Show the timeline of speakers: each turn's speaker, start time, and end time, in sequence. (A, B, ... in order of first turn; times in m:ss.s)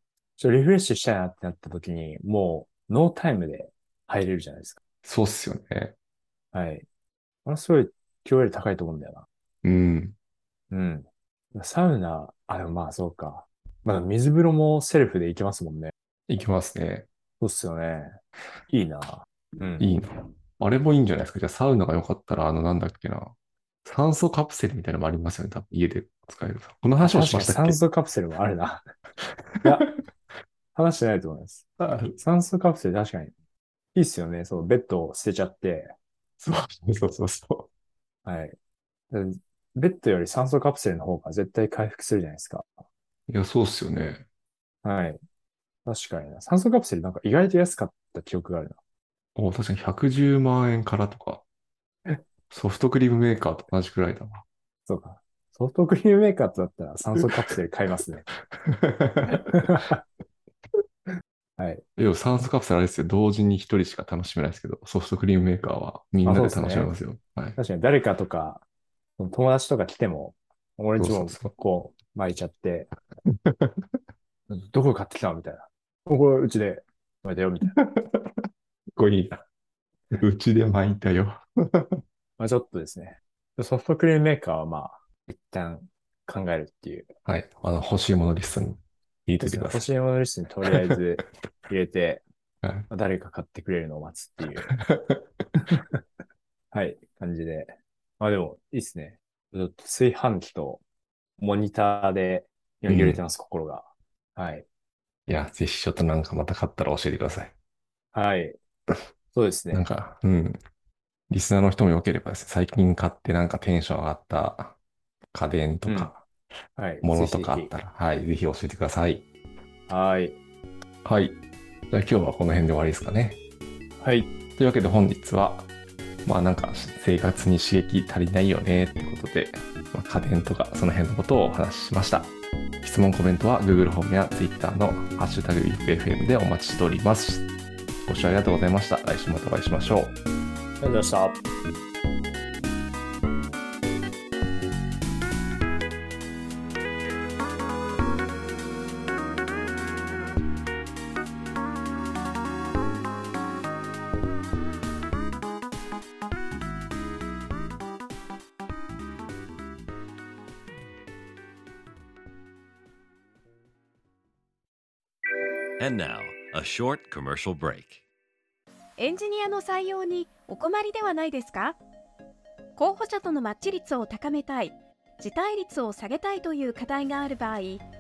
0:00.4-0:04.8 A
0:05.0-0:06.0 B
0:06.5-0:06.9 A
0:07.4-0:09.3 A
0:09.6-0:10.2 B
0:10.7-0:15.9 A
0:16.3-0:17.1 B
0:17.4-0:19.9 A
0:19.8-0:23.3 B
0:23.8-0:27.8 B
0:27.0-0:28.8 A
0:29.6-0:29.9 A
0:30.8-0:33.3 A
0:31.8-0:32.2 B
0:34.0-0:35.9 A
0:36.4-0:37.7 B
0:38.2-0:38.6 A
0:39.1-0:42.7 A
0:43.3-0:44.2 B
0:44.8-0:45.2 A
0:45.9-0:48.8 A
0:49.4-0:51.4 B
0:52.5-0:54.4 B
0:54.9-0:58.3 A
0:58.5-0:59.9 B
0:59.3-1:00.0 A
1:01.6-1:01.8 A
1:02.0-1:07.6 B
1:06.3-1:06.9 A
1:07.6-1:08.6 A
1:09.2-1:12.9 A
1:11.0-1:11.5 B
1:13.3-1:13.9 B
1:14.5-1:17.8 A
1:17.8-1:19.4 B
1:20.1-1:22.0 B
1:22.4-1:27.1 A
1:27.2-1:29.8 B
1:29.4-1:32.2 A
1:32.6-1:32.9 B
1:32.9-1:34.7 A
1:34.7-1:35.8 B
1:36.7-1:40.8 A
1:41.4-1:44.7 A
1:42.9-1:43.2 B
1:45.3-1:47.5 B
1:48.1-1:48.6 A
1:49.3-1:49.9 A
1:49.7-1:50.6 B
1:51.3-1:54.8 B
1:55.3-1:56.2 B
1:55.9-1:56.1 A
1:56.8-1:57.7 A
1:57.0-1:59.2 B
1:59.9-2:00.4 A
2:01.0-2:01.4 B
2:01.9-2:03.4 B
2:04.0-2:04.3 A
2:04.6-2:05.7 B
2:06.2-2:12.3 B
2:12.8-2:17.5 B
2:18.0-2:20.2 B
2:20.8-2:21.4 A
2:45.8-2:48.0 C
2:49.0-2:51.8 D
2:52.8-2:57.8 D